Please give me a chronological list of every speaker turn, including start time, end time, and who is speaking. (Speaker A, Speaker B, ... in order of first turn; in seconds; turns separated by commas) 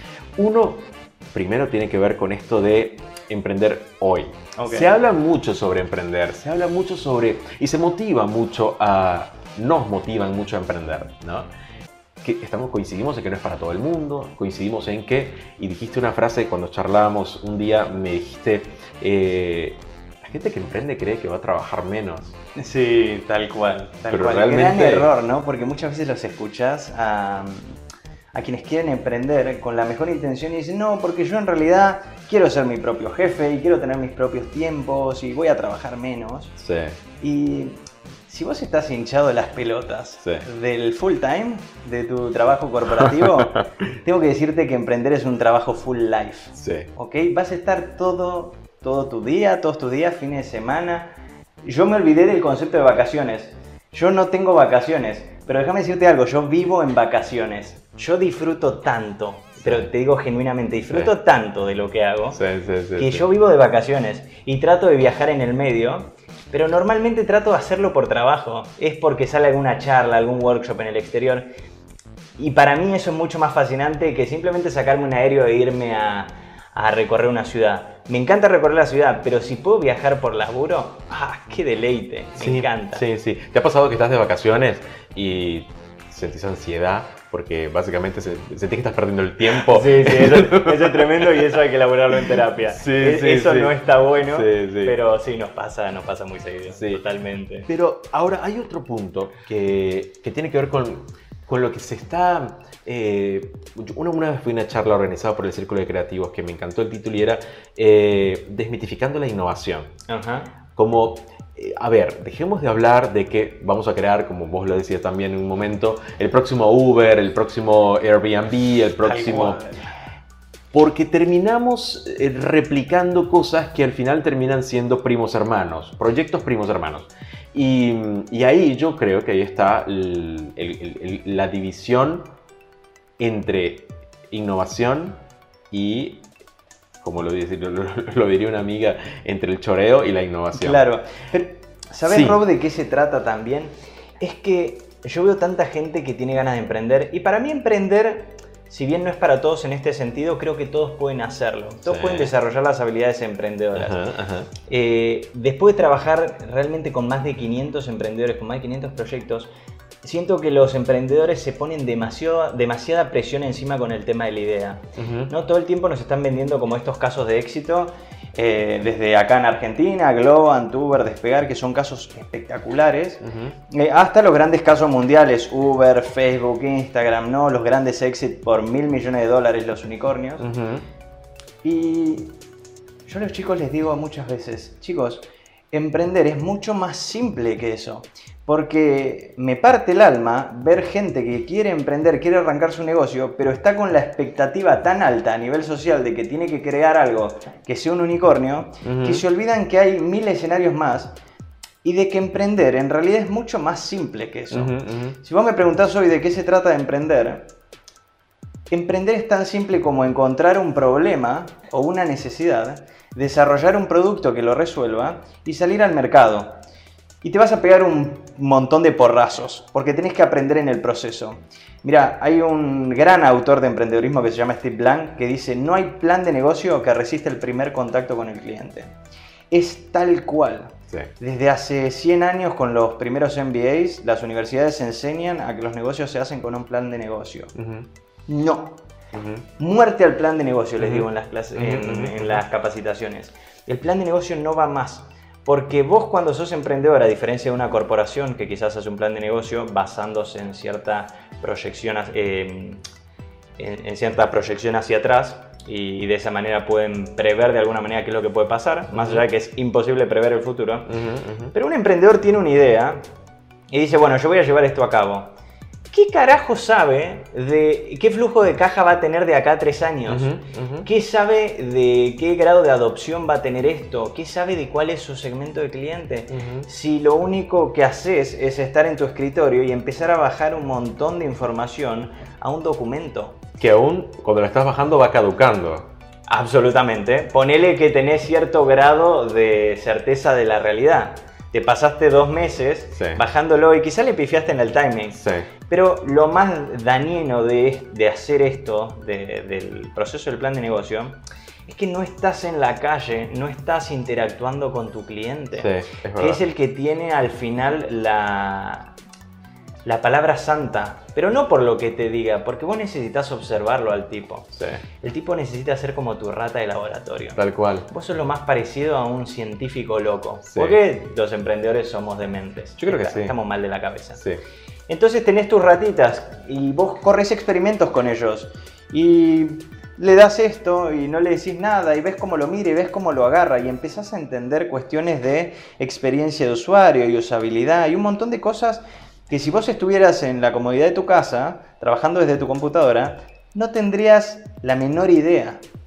Speaker A: 0.4-11.5, Speaker B: 4.6-4.9, Speaker A: 12.2-22.4, Speaker B: 22.6-27.8, Speaker A: 24.1-25.1, Speaker B: 28.3-36.5, Speaker A: 36.6-37.0, Speaker B: 37.2-62.4, Speaker A: 40.2-40.5, Speaker A: 43.0-43.7, Speaker A: 46.6-46.9, Speaker A: 59.6-59.9, Speaker A: 62.3-63.3, Speaker B: 63.0-71.5, Speaker B: 72.4-83.0, Speaker A: 82.4-91.3, Speaker B: 89.5-97.7, Speaker A: 92.7-93.8, Speaker A: 94.3-95.0, Speaker A: 96.7-97.0, Speaker A: 97.7-109.9, Speaker B: 110.1-110.5, Speaker A: 110.8-119.6, Speaker B: 119.0-120.0, Speaker A: 120.7-132.3, Speaker A: 133.2-136.3, Speaker A: 137.0-140.8, Speaker B: 140.5-154.0, Speaker A: 142.1-142.4, Speaker A: 151.9-152.3, Speaker A: 153.8-154.5, Speaker B: 154.6-159.5, Speaker B: 160.0-180.5, Speaker A: 165.0-165.3, Speaker A: 173.2-173.6, Speaker A: 180.4-180.8, Speaker B: 181.6-182.4, Speaker B: 183.1-201.2, Speaker A: 198.8-199.2, Speaker B: 201.8-207.5, Speaker A: 204.5-205.2, Speaker B: 208.7-216.6, Speaker B: 217.2-228.9, Speaker B: 229.5-237.5, Speaker A: 237.6-237.9, Speaker B: 238.3-238.8, Speaker A: 239.1-239.5, Speaker B: 239.6-252.8, Speaker A: 240.8-242.4, Speaker B: 253.6-260.9, Speaker A: 258.9-259.2, Speaker A: 260.9-261.5, Speaker B: 261.5-263.0, Speaker B: 263.7-265.4, Speaker B: 265.9-283.4, Speaker A: 270.1-270.9, Speaker A: 276.3-276.7, Speaker A: 283.6-285.9, Speaker B: 286.3-308.9, Speaker A: 292.9-293.2, Speaker A: 295.1-295.5, Speaker A: 305.6-306.4, Speaker B: 309.9-324.2, Speaker A: 314.6-314.8, Speaker A: 317.4-317.9, Speaker A: 320.5-320.8, Speaker A: 322.8-323.4, Speaker B: 324.9-345.6